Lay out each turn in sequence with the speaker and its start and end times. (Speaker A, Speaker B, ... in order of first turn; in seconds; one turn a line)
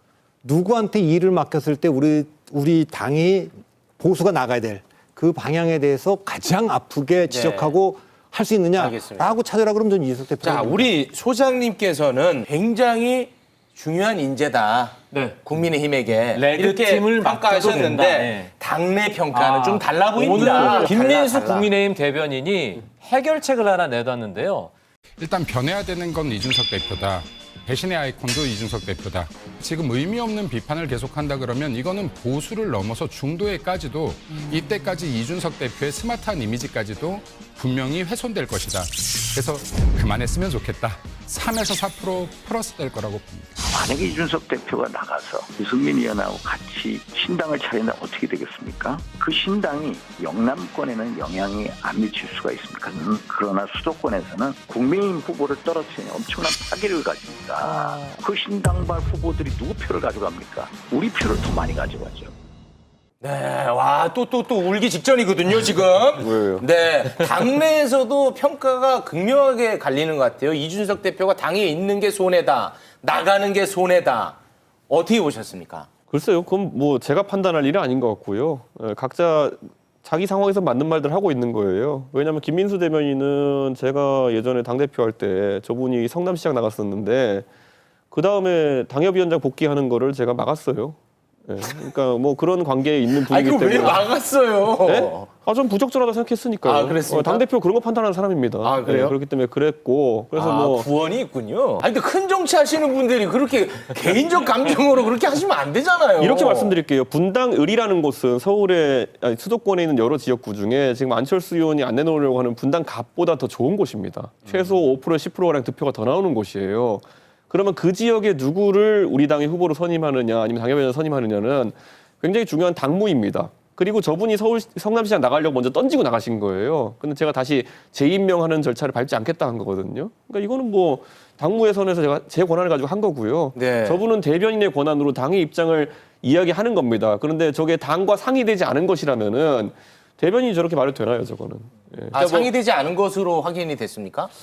Speaker A: 0.4-10.9
Speaker B: 7.3-7.8
Speaker B: 8.8-9.3
Speaker B: 10.4-21.7
Speaker C: 15.1-15.4
Speaker C: 16.3-18.5
Speaker C: 19.3-24.7
Speaker D: 25.2-43.5
Speaker E: 43.7-62.3
Speaker B: 57.6-58.1
Speaker B: 63.2-74.4
Speaker F: 66.2-66.6
Speaker B: 74.9-75.9
Speaker F: 76.1-87.5
Speaker F: 88.1-94.2
Speaker B: 93.1-95.3
Speaker F: 94.8-100.9
Speaker B: 96.6-97.5
Speaker B: 98.6-99.2
Speaker B: 100.3-106.8
Speaker F: 106.2-142.5
Speaker B: 133.6-134.0
Speaker B: 142.1-144.3